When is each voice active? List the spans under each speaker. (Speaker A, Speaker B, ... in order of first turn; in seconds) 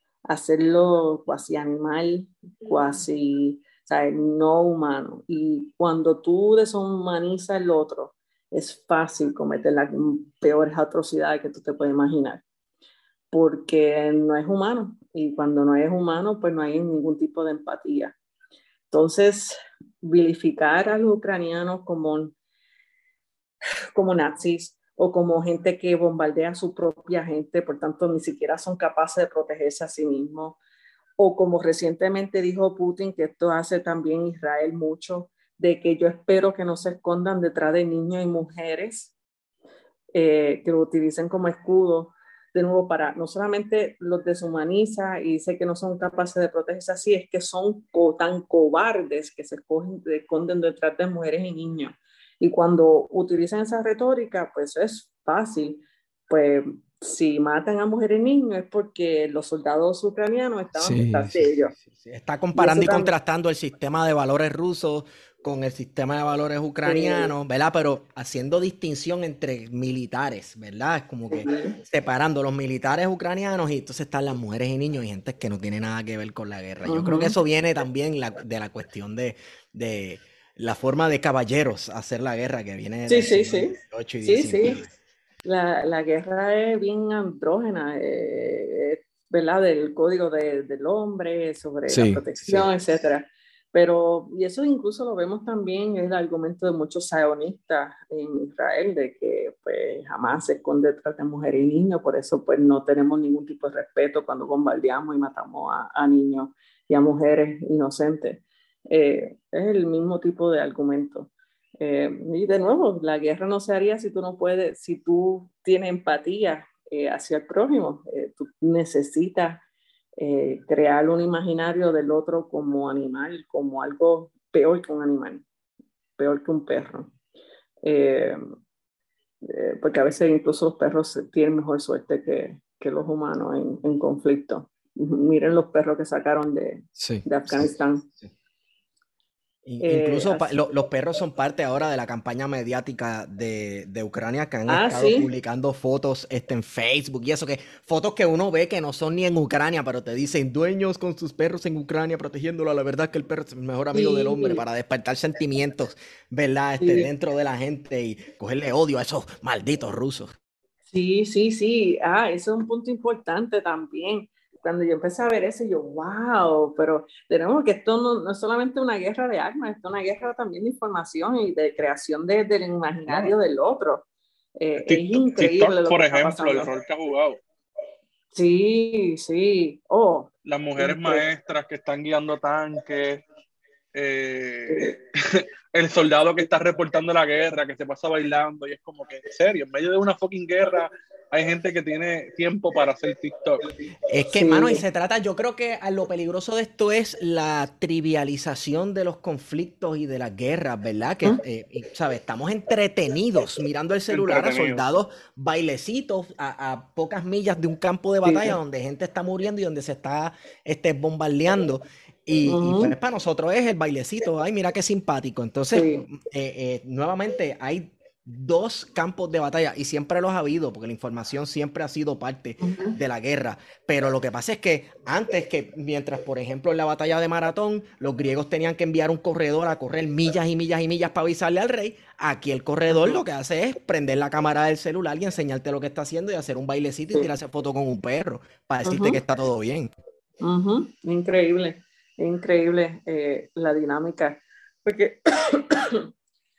Speaker A: 0.3-12.4, 13.3-18.1, 18.9-22.4, 23.9-30.6, 31.2-39.1, 40.1-61.8, 62.5-63.1, 66.8-67.3, 71.3-71.8, 76.9-77.3, 83.1-84.8, 85.5-119.6, 120.2-125.4, 126.2-127.1, 127.8-128.4, 129.4-138.1, 139.8-140.6, 144.7-145.3, 153.9-154.6, 156.8-157.1, 160.9-174.1, 174.6-176.7, 178.3-181.2, 194.3-194.8, 208.2-208.6, 212.5-212.9, 215.7-216.1, 222.6-223.0, 232.9-233.2, 238.8-239.2, 240.4-246.1
Speaker B: 60.7-84.9, 91.9-92.7, 137.0-137.7, 139.7-160.3, 194.1-239.9
Speaker C: 173.1-173.3, 174.8-177.4, 180.5-183.2, 183.9-193.7, 204.1-204.9